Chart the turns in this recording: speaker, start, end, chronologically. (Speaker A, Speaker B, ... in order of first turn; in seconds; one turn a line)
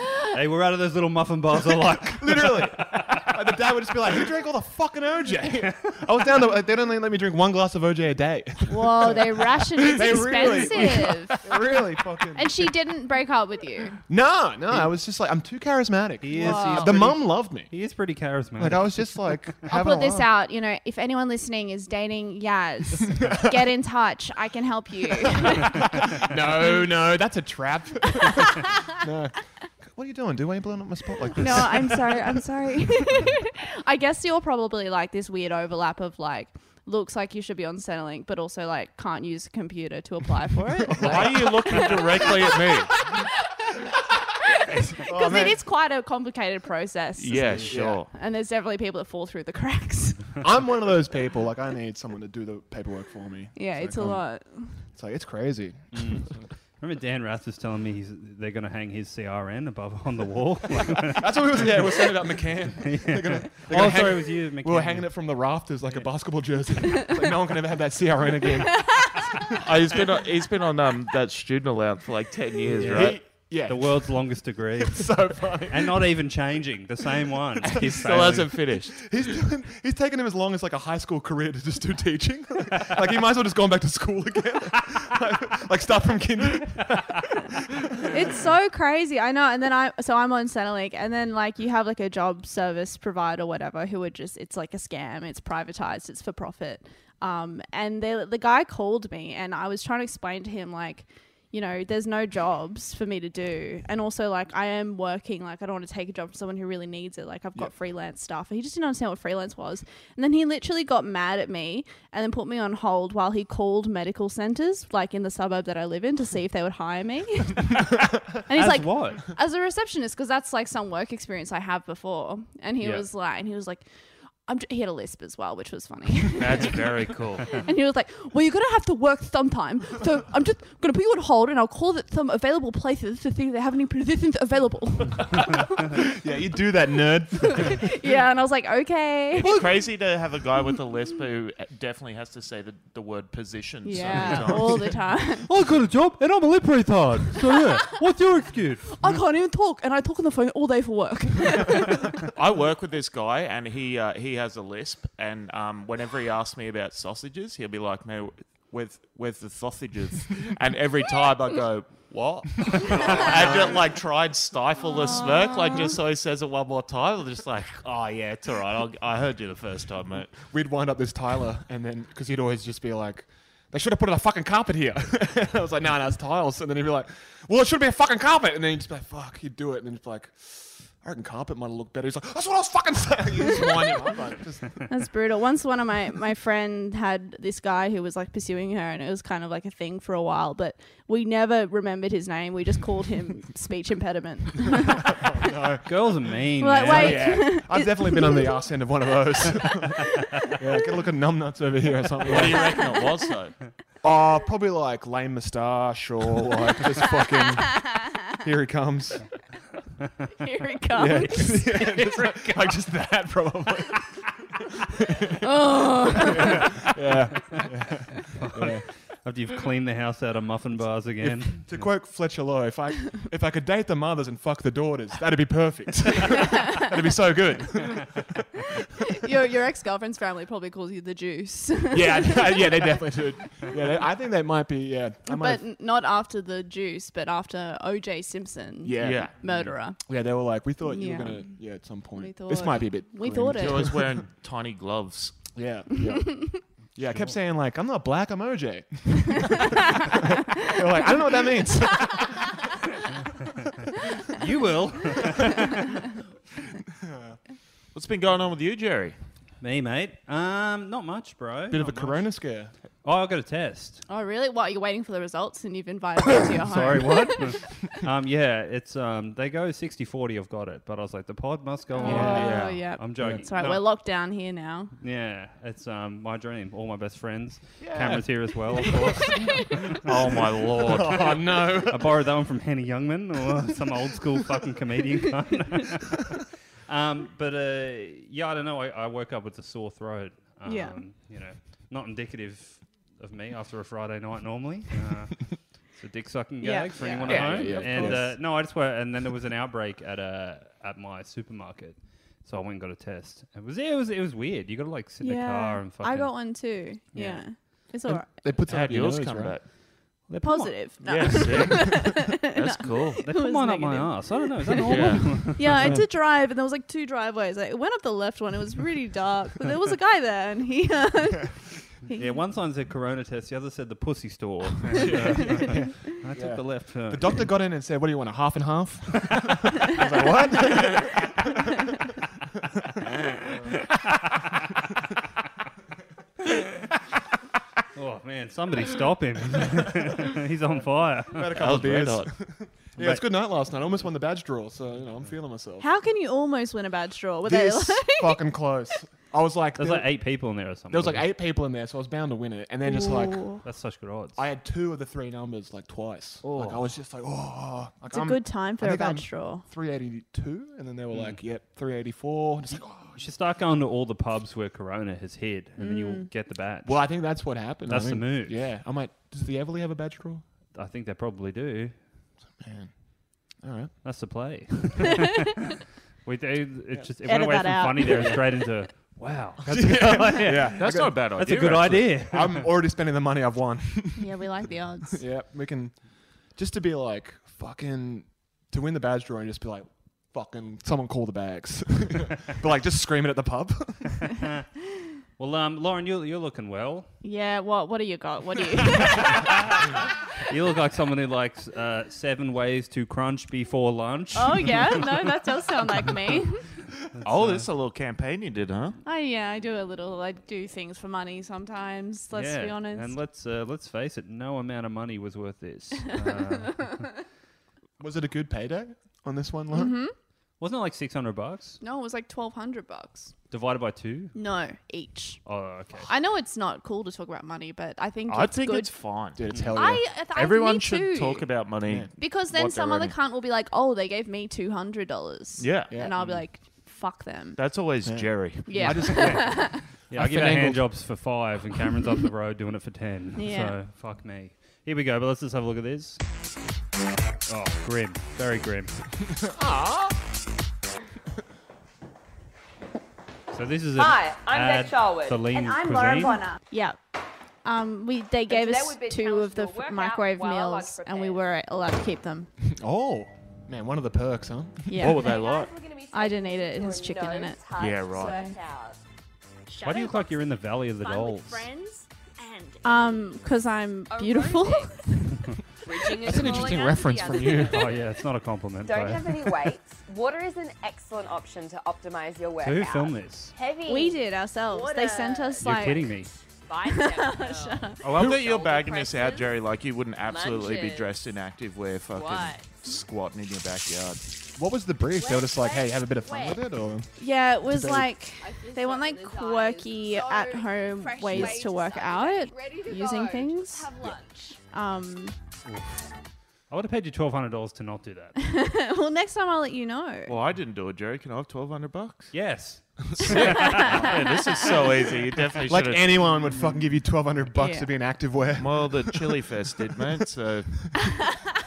Speaker A: 0.3-3.3
Speaker B: 1.9-12.7
Speaker C: 8.7-11.4
Speaker C: 12.4-14.0
Speaker B: 14.1-17.8
Speaker A: 16.2-19.5
Speaker C: 16.4-17.0
Speaker B: 18.6-20.3
Speaker C: 19.7-25.8
Speaker B: 23.1-23.6
Speaker B: 25.6-32.4
Speaker C: 31.4-43.3
Speaker B: 40.9-41.5
Speaker D: 41.0-42.9
Speaker C: 44.4-50.4
Speaker B: 45.0-45.6
Speaker D: 47.2-48.1
Speaker B: 47.6-48.0
Speaker B: 50.4-56.5
Speaker C: 53.6-54.9
Speaker A: 55.9-62.1
Speaker B: 60.9-69.3
Speaker A: 62.8-65.1
Speaker D: 69.6-73.2
Speaker B: 72.8-76.0
Speaker A: 72.8-78.7
Speaker B: 77.6-78.0
Speaker D: 77.8-79.0
Speaker B: 79.0-88.2
Speaker C: 88.1-123.8
Speaker A: 118.5-119.3
Speaker A: 122.8-123.0
Speaker C: 124.5-126.8
Speaker D: 126.4-127.5
Speaker C: 127.5-135.5
Speaker B: 135.9-137.9
Speaker C: 137.5-139.5
Speaker D: 139.3-144.9
Speaker C: 143.8-145.5
Speaker A: 145.5-149.1
Speaker C: 149.0-152.2
Speaker D: 152.3-170.4
Speaker B: 162.9-163.4
Speaker B: 170.5-184.9
Speaker C: 184.9-195.2
Speaker B: 195.0-196.0
Speaker A: 195.8-197.7
Speaker C: 196.6-198.6
Speaker B: 196.9-202.9
Speaker D: 202.2-203.6
Speaker B: 204.0-209.2
Speaker C: 210.4-211.8
Speaker B: 210.9-214.2
Speaker A: 211.1-212.6
Speaker B: 215.0-218.8
Speaker C: 215.4-216.7
Speaker A: 218.3-221.9
Speaker B: 221.2-228.3
Speaker C: 229.2-233.2
Speaker B: 231.9-235.6
Speaker C: 235.2-240.0
Speaker B: 238.8-239.3
Speaker D: 239.0-239.4
Speaker B: 240.0-244.1
Speaker C: 240.8-241.6
Speaker C: 242.2-243.9
Speaker D: 243.5-245.4
Speaker B: 245.6-252.7
Speaker C: 246.2-246.6
Speaker A: 254.3-255.9
Speaker B: 256.9-257.4
Speaker D: 257.9-259.2
Speaker A: 259.6-262.3
Speaker B: 261.7-262.7
Speaker A: 263.0-264.0
Speaker C: 264.1-267.7
Speaker A: 266.6-273.9
Speaker C: 271.9-274.9
Speaker B: 272.0-272.5
Speaker D: 272.3-272.8
Speaker B: 273.2-273.5
Speaker A: 275.0-280.0
Speaker B: 277.8-278.3
Speaker C: 278.8-279.7
Speaker D: 280.0-281.4
Speaker B: 280.8-282.2
Speaker A: 281.8-307.5
Speaker C: 290.6-291.0
Speaker C: 296.6-298.2
Speaker B: 297.2-298.4
Speaker C: 305.2-308.3
Speaker B: 308.1-309.6
Speaker D: 308.7-309.6
Speaker A: 310.3-310.9
Speaker C: 310.4-322.4
Speaker D: 311.0-313.2
Speaker A: 313.2-315.9
Speaker D: 314.9-315.5
Speaker A: 322.1-327.5
Speaker B: 324.9-331.6
Speaker C: 325.4-325.7
Speaker A: 333.2-334.0
Speaker A: 337.9-341.6
Speaker B: 340.8-345.9
Speaker D: 341.5-342.3
Speaker A: 343.0-343.2
Speaker C: 345.8-348.4
Speaker B: 347.4-350.1
Speaker A: 349.8-351.3
Speaker B: 350.9-353.6
Speaker C: 352.9-353.6
Speaker A: 353.6-354.4
Speaker B: 354.4-363.2
Speaker A: 356.4-356.9
Speaker C: 358.1-359.6
Speaker A: 361.1-361.4
Speaker A: 362.9-368.6
Speaker C: 365.8-366.3
Speaker B: 366.9-370.4
Speaker A: 370.7-372.0
Speaker B: 372.6-372.9
Speaker B: 373.6-373.9
Speaker A: 374.0-375.5
Speaker A: 376.2-382.8
Speaker C: 377.2-378.7
Speaker B: 379.7-381.5
Speaker D: 380.6-382.1
Speaker B: 382.1-384.4
Speaker C: 384.2-385.2
Speaker B: 385.1-386.0
Speaker B: 386.5-394.2
Speaker A: 395.4-397.1
Speaker C: 397.2-399.5
Speaker A: 399.1-399.9
Speaker A: 400.4-405.2
Speaker C: 404.4-406.6
Speaker A: 407.1-407.7
Speaker D: 407.2-409.0
Speaker C: 409.1-413.1
Speaker A: 412.3-417.2
Speaker B: 418.0-420.0
Speaker C: 419.7-420.1
Speaker A: 420.6-421.8
Speaker C: 421.8-423.3
Speaker A: 423.5-424.4
Speaker C: 424.3-425.4
Speaker A: 425.4-426.1
Speaker C: 426.0-428.9
Speaker D: 428.3-429.4
Speaker B: 429.4-430.0
Speaker A: 429.5-429.8
Speaker C: 429.8-431.6
Speaker D: 430.3-433.2
Speaker C: 432.2-437.6
Speaker D: 435.6-436.3
Speaker B: 435.9-436.2
Speaker D: 437.6-439.1
Speaker B: 438.1-440.9
Speaker C: 438.7-439.8
Speaker A: 438.9-446.2
Speaker C: 443.4-443.8
Speaker A: 447.5-449.0
Speaker B: 449.4-450.2
Speaker A: 453.5-456.5
Speaker E: 453.9-456.6
Speaker C: 456.5-457.0
Speaker C: 457.6-462.5
Speaker E: 458.5-461.4
Speaker B: 462.7-465.2
Speaker C: 464.9-465.3
Speaker D: 465.0-465.7
Speaker E: 465.0-469.0
Speaker C: 466.1-468.6
Speaker D: 467.8-468.4
Speaker E: 469.7-473.5
Speaker A: 469.8-471.7
Speaker C: 472.8-475.5
Speaker E: 474.1-475.2
Speaker E: 475.8-478.2
Speaker B: 476.2-478.0
Speaker A: 477.6-479.7
Speaker E: 478.8-489.6
Speaker A: 482.6-483.6
Speaker C: 483.9-486.1
Speaker A: 485.6-486.3
Speaker C: 486.9-488.0
Speaker D: 488.1-494.3
Speaker E: 490.2-491.1
Speaker E: 492.1-492.8
Speaker B: 494.6-497.1
Speaker E: 495.1-496.6
Speaker C: 497.2-503.9
Speaker B: 497.6-498.1
Speaker E: 498.4-504.6
Speaker B: 501.2-501.6
Speaker C: 504.7-505.4
Speaker A: 505.7-506.1
Speaker A: 506.7-508.4
Speaker C: 508.4-510.3
Speaker D: 510.3-512.3
Speaker A: 512.3-514.2
Speaker D: 513.2-516.2
Speaker C: 513.3-513.9
Speaker B: 515.7-519.5
Speaker C: 517.5-517.9
Speaker D: 518.6-521.1